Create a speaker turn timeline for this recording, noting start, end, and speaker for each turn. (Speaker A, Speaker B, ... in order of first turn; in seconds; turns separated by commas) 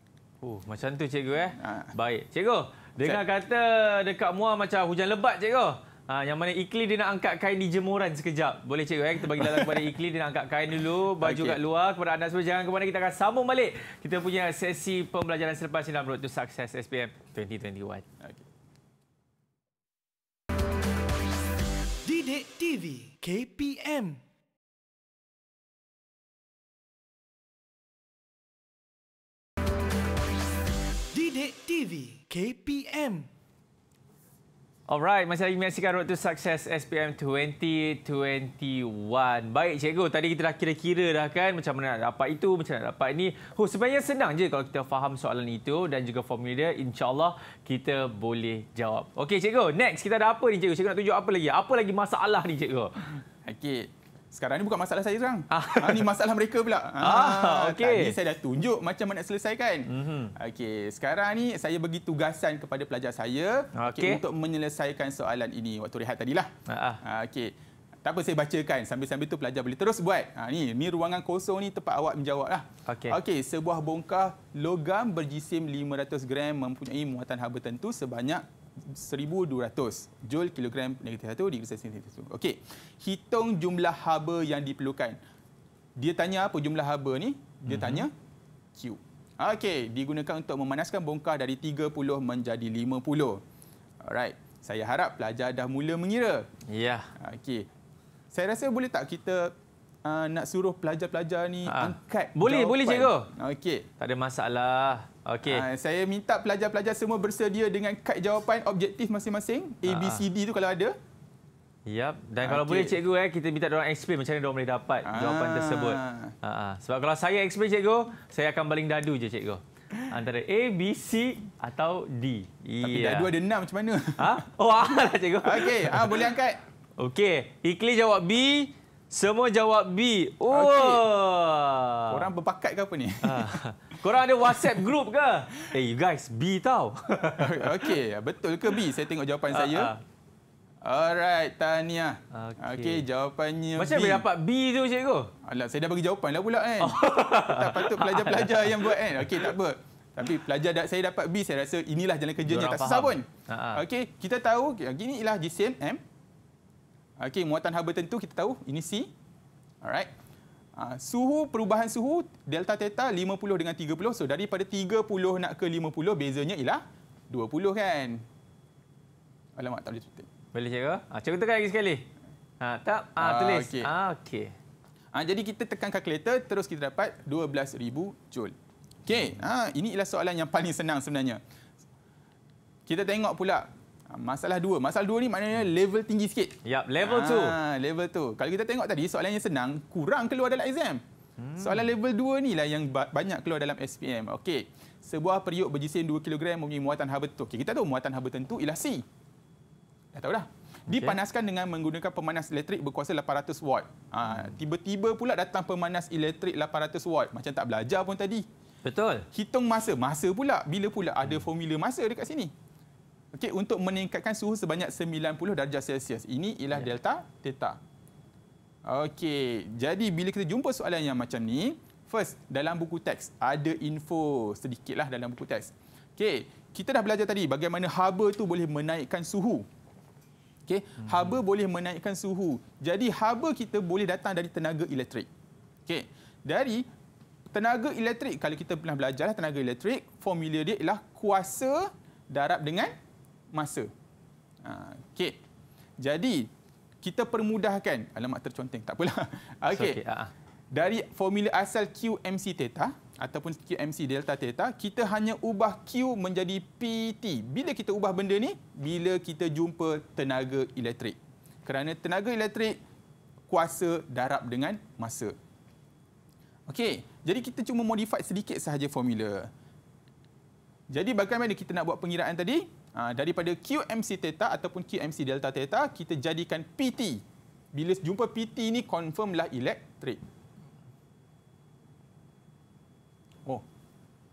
Speaker A: 0.4-18.0, Speaker B: 1.6-1.9, Speaker B: 9.3-9.9, Speaker B: 11.2-11.6, Speaker C: 22.0-24.2, Speaker C: 31.1-33.3, Speaker A: 34.9-53.0, Speaker B: 53.4-85.2, Speaker A: 55.5-56.1, Speaker A: 57.0-58.1, Speaker A: 59.9-60.3, Speaker A: 63.8-64.2, Speaker A: 66.7-67.0, Speaker A: 72.9-73.2, Speaker B: 86.0-88.1, Speaker A: 87.7-88.1, Speaker B: 88.7-93.4, Speaker B: 94.0-96.5, Speaker A: 96.7-97.1, Speaker B: 97.2-97.7, Speaker B: 98.3-103.9, Speaker A: 101.7-103.3, Speaker A: 104.0-105.7, Speaker B: 105.4-111.0, Speaker A: 109.8-110.2, Speaker A: 111.9-123.3, Speaker B: 112.4-113.0, Speaker B: 115.0-116.3, Speaker B: 122.8-126.6, Speaker A: 124.2-126.2, Speaker A: 127.0-132.2, Speaker B: 130.5-131.0, Speaker B: 132.1-133.6, Speaker A: 133.2-137.9, Speaker B: 137.4-139.9, Speaker A: 139.5-140.0, Speaker B: 140.8-144.2, Speaker A: 142.3-143.0, Speaker A: 143.8-145.3, Speaker B: 145.4-156.0, Speaker A: 146.8-149.4, Speaker A: 152.4-153.8, Speaker B: 157.2-159.1, Speaker B: 159.8-160.1, Speaker B: 160.8-168.2, Speaker B: 169.6-170.3, Speaker A: 170.5-172.1, Speaker A: 172.6-174.5, Speaker B: 173.2-173.9, Speaker B: 175.1-181.4, Speaker B: 182.9-191.0, Speaker A: 186.6-187.6, Speaker A: 191.4-191.9, Speaker B: 191.6-199.0, Speaker B: 200.1-208.5, Speaker A: 200.9-201.2, Speaker A: 208.8-209.2, Speaker B: 209.3-212.5, Speaker B: 213.3-217.8, Speaker B: 218.8-229.7, Speaker B: 230.7-235.3, Speaker A: 231.0-231.4, Speaker B: 235.8-236.9, Speaker B: 237.5-242.9, Speaker B: 243.5-243.9, Speaker B: 244.6-245.4, Speaker B: 246.0-246.5, Speaker B: 247.0-250.0, Speaker A: 249.7-250.3, Speaker B: 250.7-262.8, Speaker B: 263.5-265.4, Speaker B: 266.7-269.5, Speaker B: 270.9-280.2